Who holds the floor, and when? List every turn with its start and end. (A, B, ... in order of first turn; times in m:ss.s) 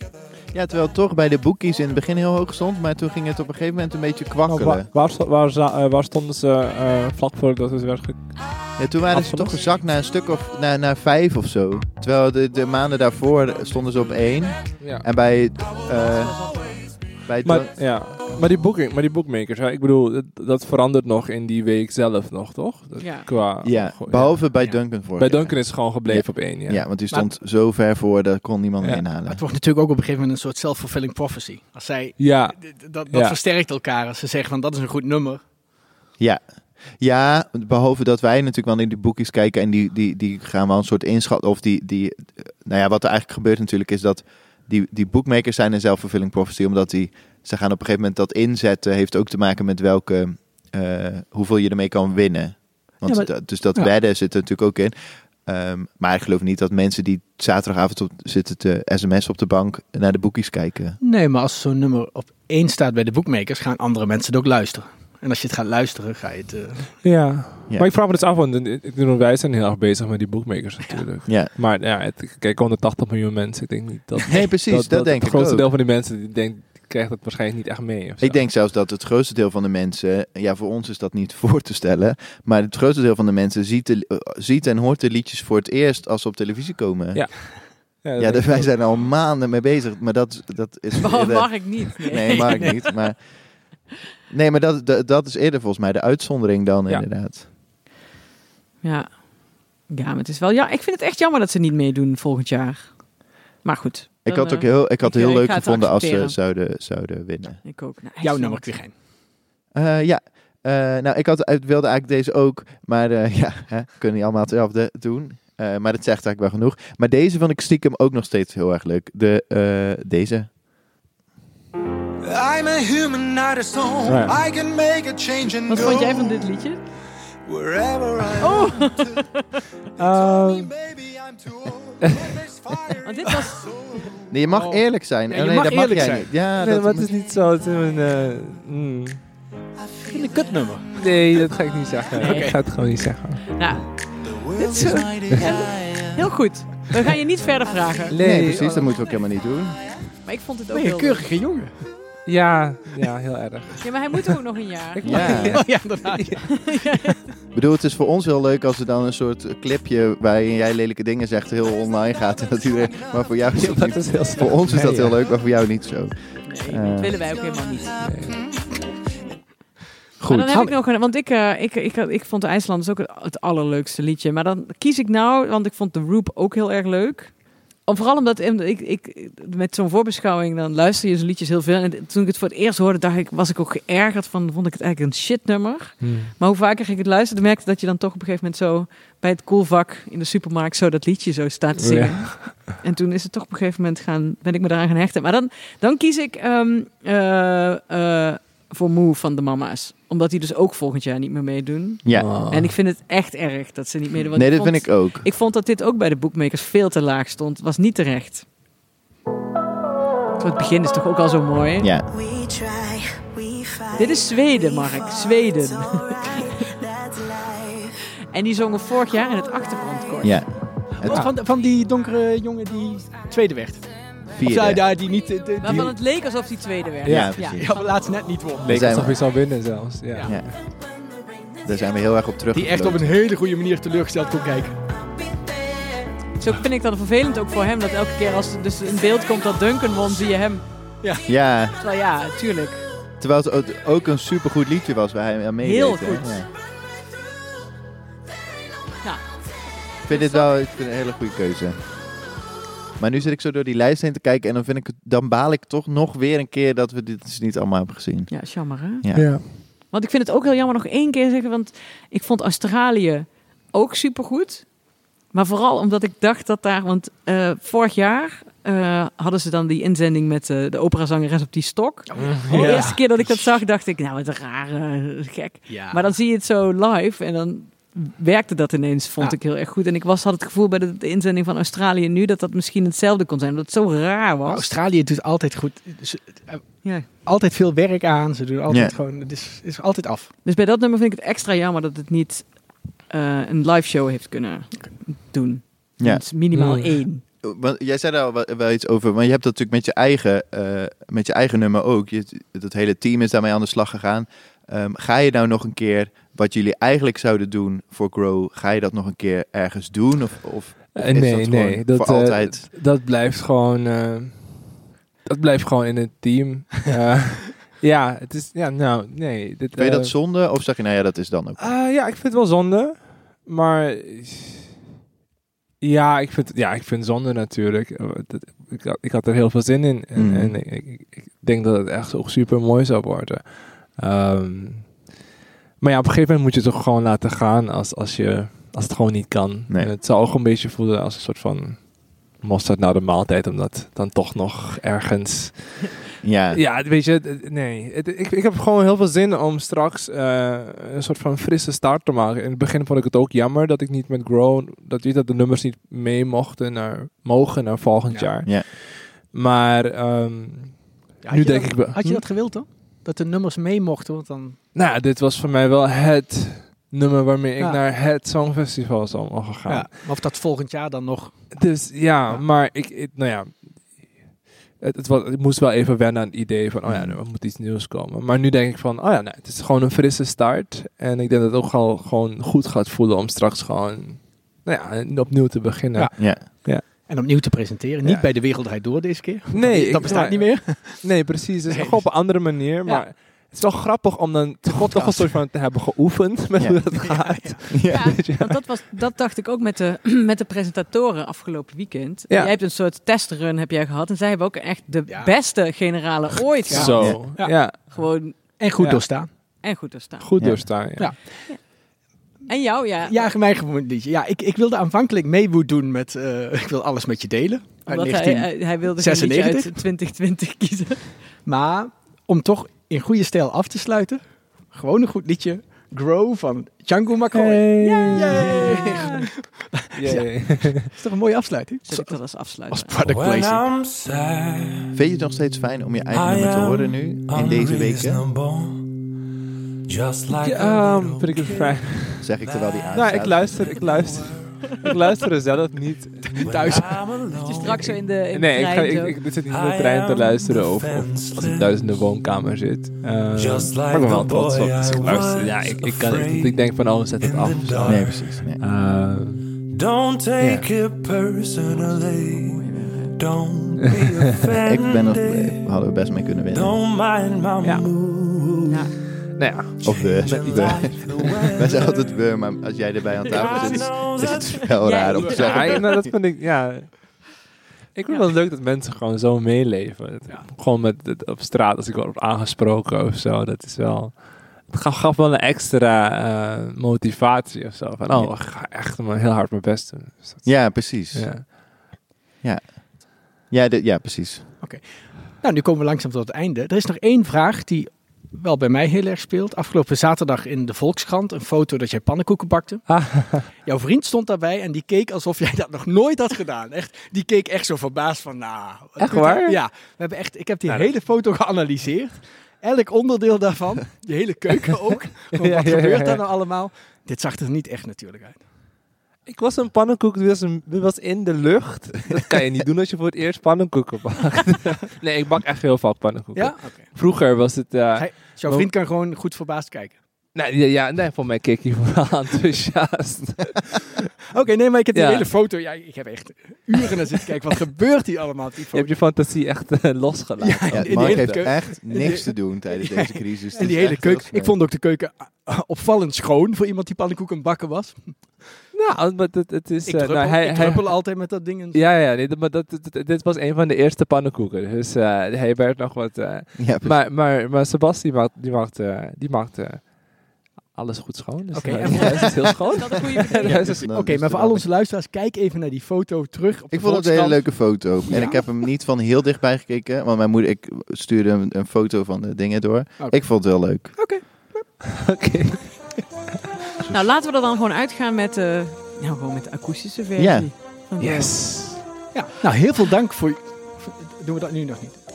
0:00.5-0:04.9 A
0:04.5-0:09.6 B
0:08.8-0:17.9 A
0:14.8-0:15.1 B
0:16.4-0:16.9 C
0:17.4-0:26.9 B
0:23.0-0:23.3 C
0:23.6-0:29.4 A
0:29.2-0:35.4 D
0:32.2-0:33.4 B
0:36.2-1:01.0 A
0:53.1-0:53.9 D
1:01.0-1:07.0 D
1:07.0-1:18.5 B
1:14.3-1:15.7 A
1:18.2-1:37.4 A
1:27.1-1:28.9 B
1:31.0-1:33.0 C
1:32.4-1:32.8 B
1:38.8-1:46.4 C
1:44.2-1:47.6 A
1:47.6-1:48.7 C
1:48.2-1:49.0 D
1:49.7-2:00.5 A
2:02.2-2:06.2 E
2:04.0-2:04.4 B
2:05.7-2:06.8 C
2:07.4-2:09.2 E
2:08.4-2:09.5 C
2:10.0-2:10.7 B
2:10.0-2:12.9 E
2:12.0-2:12.4 B
2:13.0-2:14.1 C
2:14.3-2:17.1 A
2:14.5-2:16.3 D
2:16.6-2:19.3 B
2:20.1-2:21.0 D
2:20.9-2:23.6 B
2:22.2-2:22.6 D
2:22.2-2:22.8 C
2:23.5-2:28.2 C
2:24.8-2:26.2 E
2:28.1-2:28.9 B
2:28.2-2:30.0 A
2:30.2-2:31.3 C
2:30.7-2:31.9 D
2:32.2-2:34.3 B
2:33.8-2:35.8 C
2:35.0-2:35.7 A
2:35.0-2:36.7 B
2:35.1-2:37.1 D
2:36.5-2:37.1 C
2:37.5-2:47.2 A
2:43.6-2:45.2 B
2:46.4-2:48.2 C
2:48.0-2:48.6 B
2:50.2-2:50.5 A
2:50.2-3:28.5 C
3:06.0-3:06.3 B
3:11.8-3:12.6 B
3:22.0-3:22.3 A
3:22.1-3:22.8 B
3:24.3-3:25.2 A
3:30.4-3:31.9 C
3:31.8-3:32.2 A
3:33.8-3:36.8 C
3:38.3-3:40.5 C
3:40.2-3:41.3 A
3:41.0-3:46.0 D
3:41.1-3:41.3 B
3:44.2-3:44.9 A
3:45.6-3:48.2 C
3:47.0-3:47.4 B
3:47.0-3:47.8 A
3:47.4-3:48.9 D
3:48.6-3:50.5 B
3:48.6-3:49.4 A
3:50.1-3:50.4 D
3:50.2-3:50.6 A
3:51.6-3:53.1 A
3:52.5-3:54.8 D
3:56.3-4:01.2 C
4:01.3-4:01.8 A
4:01.7-4:02.9 C
4:03.2-4:06.5 A
4:05.6-4:06.4 C
4:09.0-4:10.6 C
4:10.0-4:12.2 A
4:13.0-4:19.4 A
4:18.3-4:44.7 C
4:19.2-4:19.4 B
4:32.1-4:33.5 D
4:32.2-4:32.8 B
4:35.7-4:36.1 D
4:44.5-4:50.3 D
4:48.7-4:49.0 A
4:50.4-4:57.2 C
4:56.0-4:56.2 A
4:56.5-4:57.0 B
4:57.4-5:12.7 A
5:11.0-5:20.2 B
5:19.8-5:21.8 A
5:21.6-5:24.8 B
5:25.8-5:35.1 B
5:30.1-5:30.6 A
5:35.8-6:02.3 B
5:46.2-5:46.6 A
6:01.2-6:04.6 D
6:04.7-6:10.1 B
6:09.7-6:12.5 D
6:11.5-6:26.8 B
6:16.9-6:17.2 A
6:26.0-6:33.1 D
6:28.0-6:28.3 A
6:29.5-6:38.6 B
6:34.7-6:35.4 A
6:36.9-6:37.6 D
6:37.7-6:38.1 A
6:37.9-6:47.4 C
6:42.3-6:42.5 B
6:45.1-6:45.3 D
6:46.7-6:47.7 D
6:46.7-6:48.1 B
6:47.9-6:48.6 C
6:48.3-6:49.3 D
6:48.8-6:49.5 B
6:49.5-6:50.6 C
6:50.2-6:51.1 B
6:50.4-6:50.7 A
6:51.0-6:51.4 D
6:51.5-6:53.3 C
6:53.0-6:59.8 D
6:57.9-7:01.3 C
7:01.4-7:13.7 D
7:07.3-7:10.9 B
7:07.8-7:09.1 C
7:11.9-7:13.0 C
7:13.0-7:15.0 E
7:15.0-7:18.2 A
7:16.1-7:18.9 E
7:19.9-7:24.8 E
7:20.3-7:22.3 B
7:22.2-7:23.7 A
7:22.9-7:27.0 B
7:26.4-7:28.0 E
7:26.4-7:27.1 D
7:27.4-7:29.2 C
7:27.7-7:39.7 B
7:29.5-7:32.0 E
7:33.3-7:38.3 E
7:37.9-7:38.6 A
7:39.6-7:45.7 E
7:40.4-7:40.7 B
7:41.7-7:43.2 C
7:43.8-7:44.5 B
7:44.6-7:46.8 A
7:46.5-7:48.8 E
7:47.6-7:47.9 B
7:48.7-7:49.0 C
7:49.4-7:51.7 B
7:49.8-7:52.3 E
7:49.8-7:56.1 A
7:53.3-7:55.0 E
7:53.4-7:53.9 D
7:53.5-7:56.0 C
7:55.1-7:55.8 D
7:55.3-8:11.5 B
8:10.4-8:11.6 A
8:12.4-8:14.5 A
8:14.6-8:38.4 D
8:22.9-8:23.5 B
8:29.0-8:29.6 B
8:30.7-8:30.9 B
8:35.3-8:36.2 B
8:39.3-8:48.7 B
8:46.4-8:50.0 D
8:50.3-8:54.0 B
8:54.4-8:58.9 D
8:54.9-8:55.3 B
8:58.7-9:02.1 B
9:00.4-9:08.5 D
9:00.7-9:04.6 A
9:08.7-9:23.9 B
9:09.9-9:11.8 D
9:16.6-9:17.0 A
9:21.5-9:22.4 D
9:21.7-9:23.8 C
9:23.4-9:24.7 A
9:23.8-9:28.6 D
9:26.7-9:34.3 A
9:33.0-9:34.6 D
9:35.0-9:35.9 B
9:36.9-9:41.4 C
9:40.2-9:40.5 A
9:41.0-9:41.8 B
9:42.1-9:45.0 D